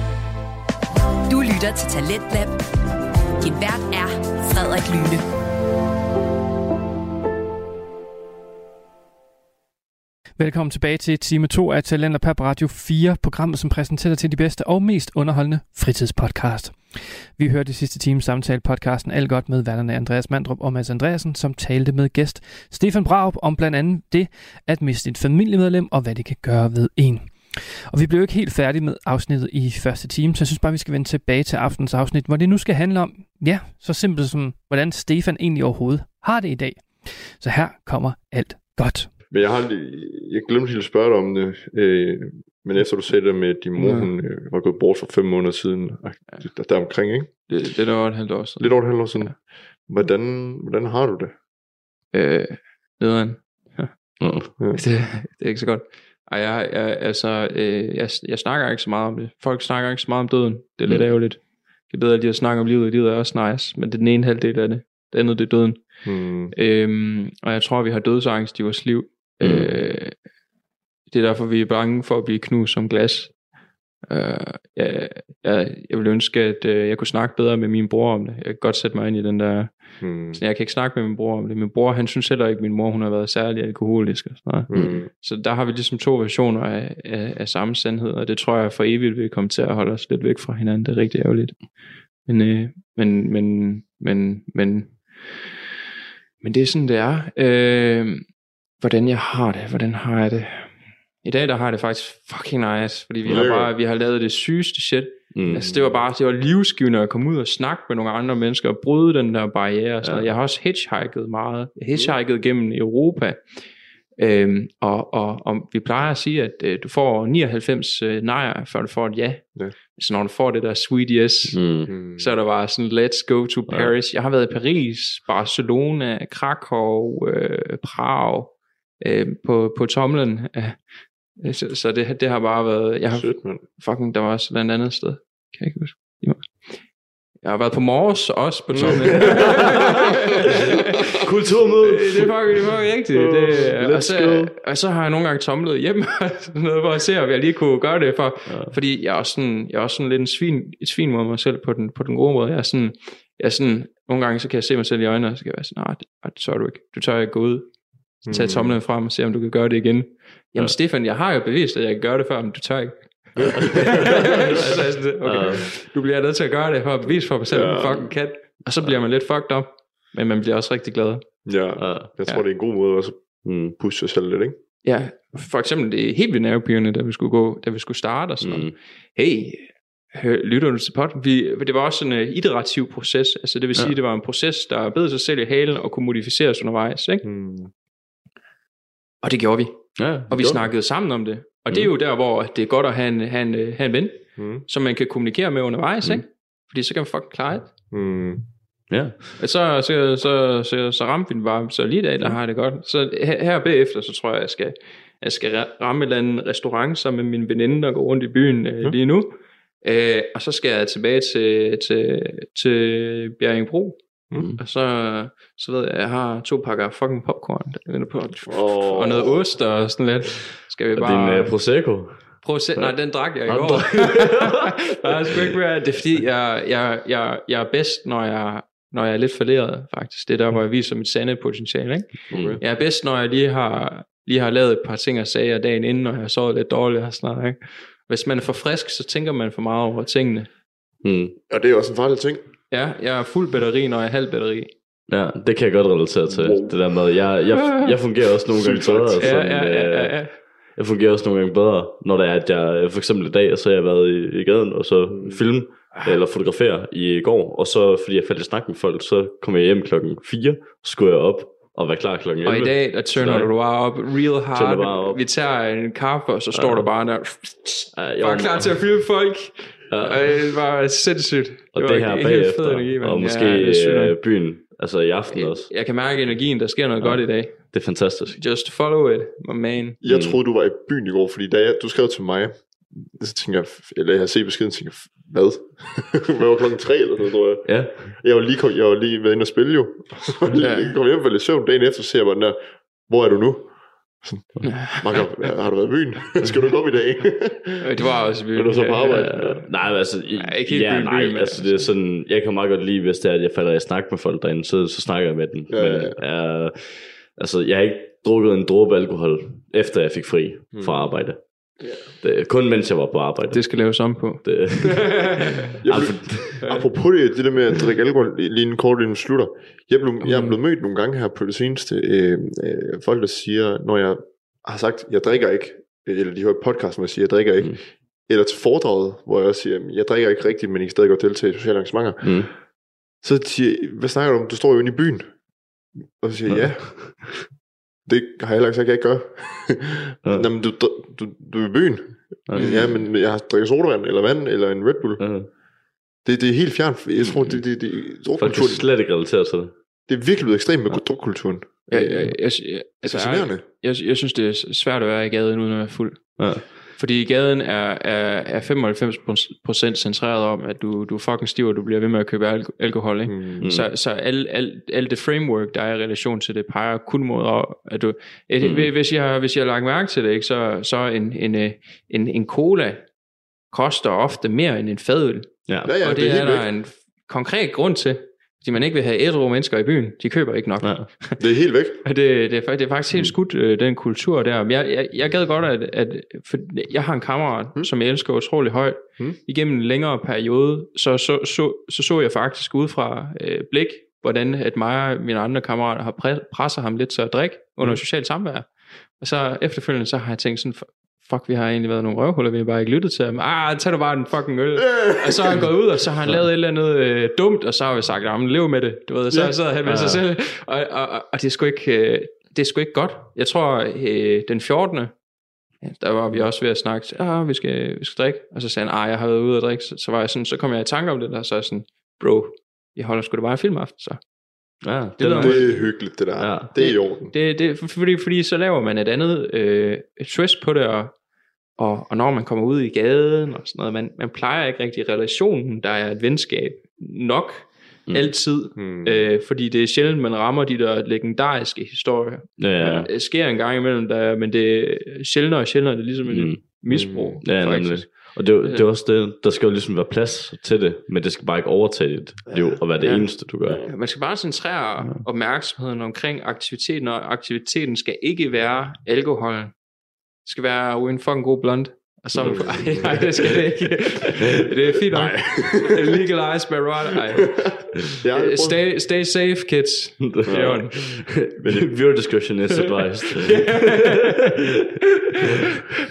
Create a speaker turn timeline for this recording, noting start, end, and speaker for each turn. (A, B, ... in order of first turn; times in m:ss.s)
0:01.3-0:02.6 A
0:03.4-0:05.2 A
0:10.4-0:39.1 B
0:39.3-0:47.3 C
0:43.8-0:44.1 D
0:47.5-0:49.3 D
0:48.6-0:51.4 C
0:52.1-1:10.2 D
0:54.2-0:54.5 E
0:54.6-0:54.8 C
1:00.9-1:01.2 E
1:06.0-1:06.5 C
1:09.4-1:09.8 E
1:11.1-1:13.4 D
1:14.1-1:31.7 D
1:20.0-1:20.4 C
1:24.7-1:25.1 C
1:24.7-1:25.0 E
1:32.3-1:35.4 D
1:36.4-1:38.3 D
1:38.8-1:40.7 D
1:41.2-1:53.6 D
1:43.2-1:43.7 C
1:45.3-1:45.7 E
1:45.5-1:45.8 C
1:54.2-2:10.8 D
2:01.5-2:01.9 E
2:01.9-2:02.4 C
2:03.7-2:04.0 E
2:11.4-2:16.7 D
2:13.1-2:13.6 C
2:17.4-2:21.0 D
2:18.7-2:19.9 C
2:18.8-2:19.8 E
2:21.2-2:22.4 E
2:21.7-2:51.5 D
2:23.2-2:23.7 C
2:23.6-2:24.5 E
2:28.5-2:28.8 E
2:38.3-2:38.8 C
2:43.4-2:45.7 E
2:43.8-2:44.6 C
2:47.5-2:48.2 C
2:48.6-2:49.0 E
2:51.4-2:54.6 C
2:51.8-2:52.2 E
2:53.4-2:53.8 E
2:54.8-3:07.2 D
2:58.4-2:58.8 E
3:07.2-3:07.7 C
3:09.2-3:17.7 D
3:10.0-3:10.7 E
3:14.4-3:14.6 C
3:17.9-3:18.5 C
3:18.9-3:19.2 E
3:19.4-4:00.5 D
3:34.4-3:34.6 E
3:38.5-3:39.5 C
3:41.0-3:45.6 E
3:52.3-3:52.6 E
3:52.3-3:52.6 C
4:01.0-4:01.4 E
4:01.5-4:02.5 C
4:02.7-4:04.7 D
4:05.1-4:23.7 E
4:06.3-4:06.9 C
4:07.6-4:08.0 D
4:08.5-4:09.4 C
4:09.2-4:10.4 D
4:15.1-4:15.6 C
4:22.4-4:34.2 D
4:24.5-4:25.2 E
4:26.5-4:26.9 E
4:27.9-4:29.0 E
4:29.9-4:30.6 E
4:31.7-4:36.4 E
4:35.3-4:40.0 D
4:37.0-4:38.4 E
4:40.0-4:59.6 C
4:40.0-4:40.4 E
4:47.6-4:48.2 E
4:50.6-4:50.9 D
4:54.6-4:54.9 E
4:54.6-4:55.3 D
4:57.8-5:01.9 D
4:59.0-5:16.8 E
5:05.7-5:06.2 C
5:10.7-5:11.3 C
5:11.8-5:12.1 C
5:13.5-5:15.7 D
5:15.8-5:32.6 C
5:16.6-5:16.9 D
5:20.2-5:20.6 E
5:32.2-5:32.5 E
5:33.2-5:35.4 C
5:36.0-5:37.6 C
5:36.5-5:37.4 E
5:38.1-5:45.4 C
5:40.2-5:40.5 E
5:42.5-5:43.1 E
5:42.6-5:43.0 D
5:45.2-5:45.5 E
5:46.2-5:48.9 C
5:47.2-5:49.8 E
5:50.1-5:53.6 C
5:50.9-5:51.5 E
5:51.9-6:13.0 D
5:56.4-5:56.7 E
6:03.3-6:03.7 C
6:03.6-6:03.9 E
6:08.6-6:08.9 E
6:13.7-6:21.4 D
6:15.7-6:16.3 E
6:15.8-6:16.7 C
6:20.8-6:21.3 E
6:21.4-6:22.0 C
6:22.0-6:55.2 D
6:45.0-6:45.5 C
6:49.8-6:50.2 E
6:55.8-7:04.2 D
7:04.8-7:07.1 E
7:05.2-7:06.2 D
7:05.3-7:07.3 C
7:06.8-7:11.1 D
7:11.8-7:28.9 D
7:18.1-7:18.6 E
7:18.7-7:19.3 C
7:22.6-7:23.1 E
7:26.2-7:26.8 E
7:26.9-7:27.4 C
7:27.4-7:33.8 E
7:32.5-7:39.7 D
7:40.5-7:47.8 D
7:42.4-7:43.5 C
7:44.4-7:46.2 C
7:47.4-7:48.8 C
7:48.4-7:51.0 D
7:50.2-7:54.8 E
7:50.5-7:50.9 C
7:52.7-7:54.4 D
7:55.3-7:55.6 D